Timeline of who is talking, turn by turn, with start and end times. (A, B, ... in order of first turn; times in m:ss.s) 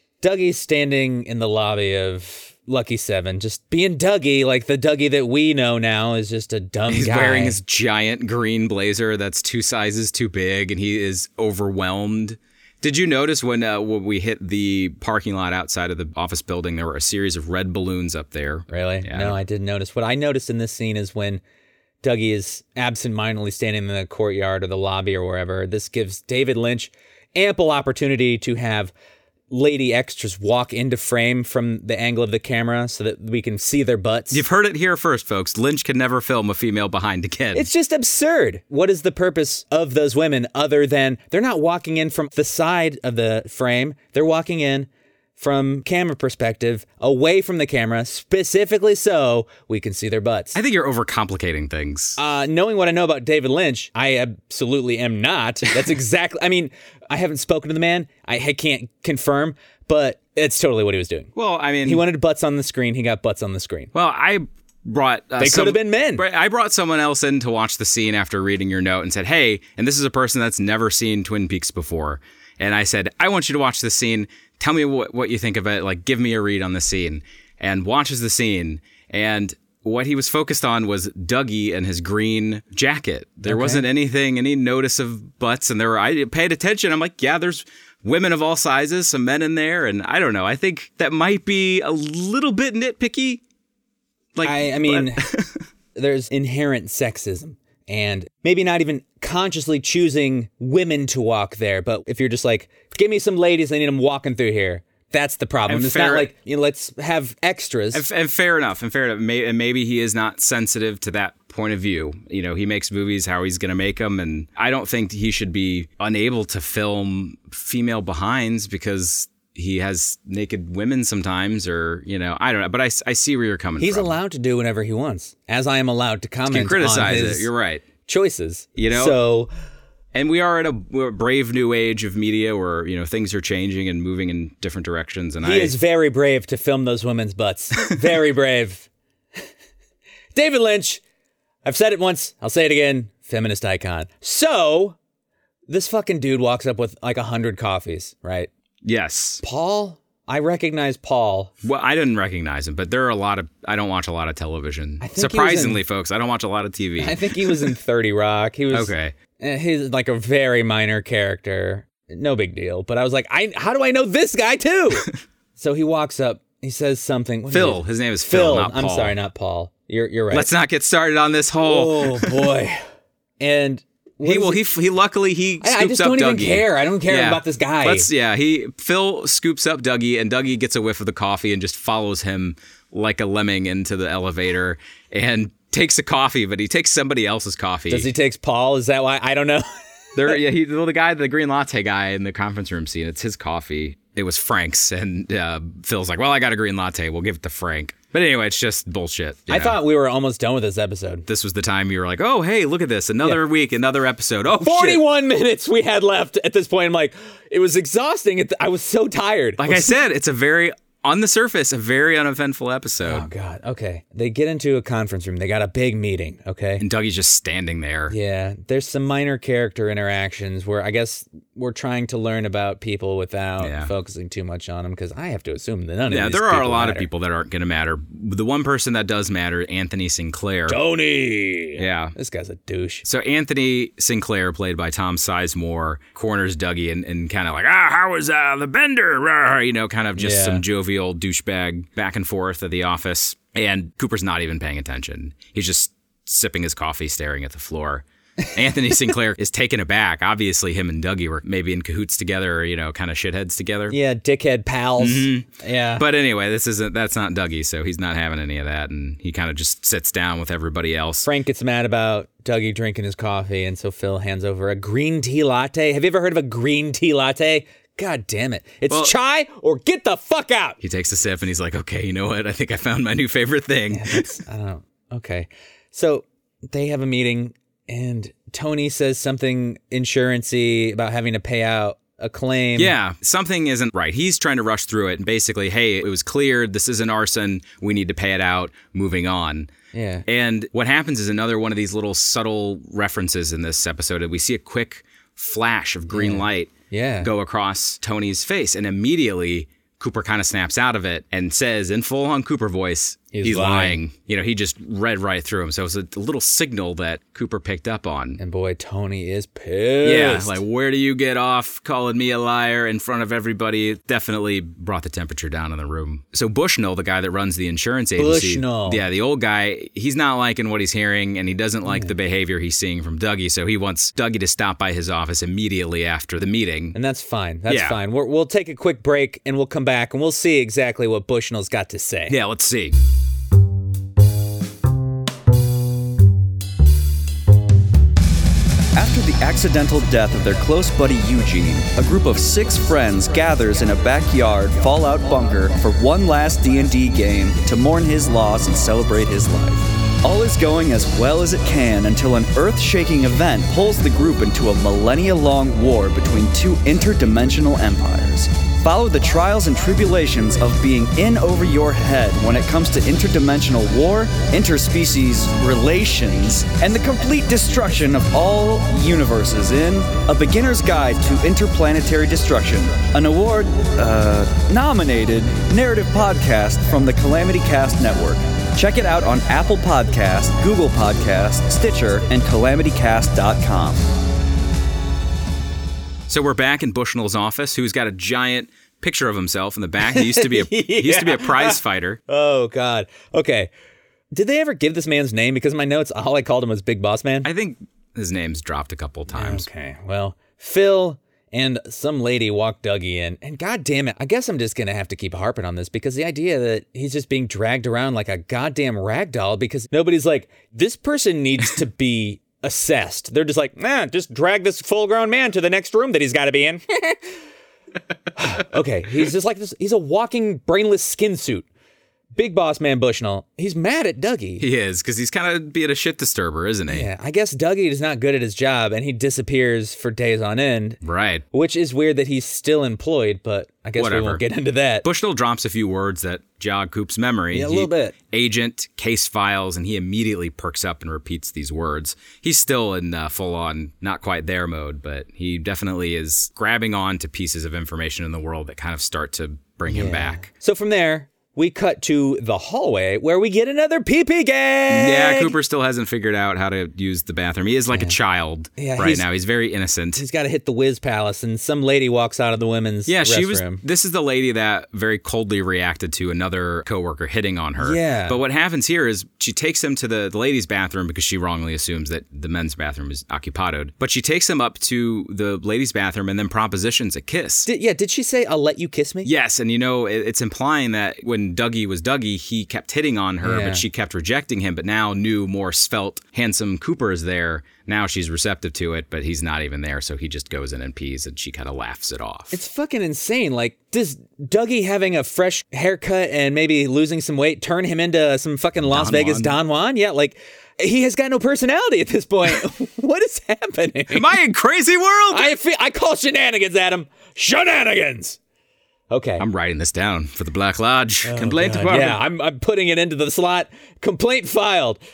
0:00.2-0:07.6 A
0:06.9-0:19.4 B
0:18.7-0:21.4 A
0:22.0-0:28.9 A
0:29.5-0:34.4 A
0:34.3-0:37.7 B
0:37.5-0:50.6 A
0:50.5-0:52.2 B
0:52.2-1:01.3 A
1:01.3-1:02.0 B
1:01.8-1:03.9 A
1:03.9-1:33.4 B
1:05.4-1:06.2 A
1:23.4-1:23.8 A
1:34.3-1:35.6 B
1:34.4-1:35.2 A
1:35.9-1:48.0 A
1:45.7-1:46.3 B
1:47.9-2:04.2 B
2:03.8-2:07.5 A
2:06.5-2:07.8 B
2:08.0-2:09.5 A
2:08.8-2:09.2 B
2:10.1-2:15.7 B
2:15.4-2:18.9 A
2:20.3-2:21.0 A
2:21.6-2:25.0 A
2:25.7-2:28.5 A
2:28.8-2:29.4 B
2:29.4-2:31.5 A
2:31.6-2:37.7 B
2:35.0-2:35.8 A
2:37.0-2:50.5 A
2:38.7-2:39.2 B
2:47.5-2:49.2 B
2:50.3-2:52.5 B
2:51.6-2:52.8 A
2:53.4-2:54.6 A
2:54.2-3:08.1 B
2:55.6-2:58.1 A
3:07.9-3:09.6 A
3:10.2-3:19.8 B
3:19.5-3:21.2 A
3:21.3-3:25.0 B
3:24.5-3:29.9 A
3:29.6-3:33.3 B
3:33.0-3:36.8 A
3:36.8-3:38.2 B
3:38.1-3:47.1 A
3:43.6-3:43.9 B
3:46.1-3:50.8 B
3:50.7-3:53.0 A
3:51.8-3:52.1 B
3:53.0-4:14.0 B
4:00.2-4:00.6 A
4:13.9-4:16.0 A
4:15.0-4:21.3 B
4:21.2-4:30.8 A
4:30.8-4:34.4 B
4:33.9-4:42.9 A
4:42.8-4:49.7 B
4:49.9-4:50.2 A
4:50.2-5:08.4 B
4:56.1-4:57.3 A
5:03.3-5:04.0 A
5:08.4-5:10.6 A
5:10.0-5:26.9 B
5:18.2-5:19.0 A
5:21.8-5:22.1 A
5:26.9-5:32.4 A
5:27.7-5:28.0 B
5:32.3-5:33.0 B
5:38.9-6:24.0 C
6:26.3-6:32.2 B
6:30.0-6:33.7 A
6:34.3-6:37.5 A
6:37.4-6:39.7 B
6:39.3-6:57.2 A
6:58.4-7:01.6 A
7:02.4-7:04.6 A
7:04.6-7:07.1 B
7:06.9-7:11.0 A
7:11.0-7:11.4 B
7:11.5-7:15.0 A
7:14.0-7:14.4 B
7:15.0-7:30.5 B
7:17.5-7:18.1 A
7:29.9-7:35.5 A
7:34.9-7:40.2 B
7:38.8-7:39.3 A
7:40.1-7:43.8 A
7:43.0-7:57.7 B
7:47.8-7:48.4 A
7:57.6-7:59.3 A
7:59.2-8:12.6 B
8:03.4-8:03.8 A
8:12.5-8:24.3 A
8:18.8-8:19.6 B
8:24.1-8:25.5 B
8:25.3-8:28.4 A
8:29.1-8:29.4 A
8:29.4-8:32.2 B
8:31.2-8:35.0 A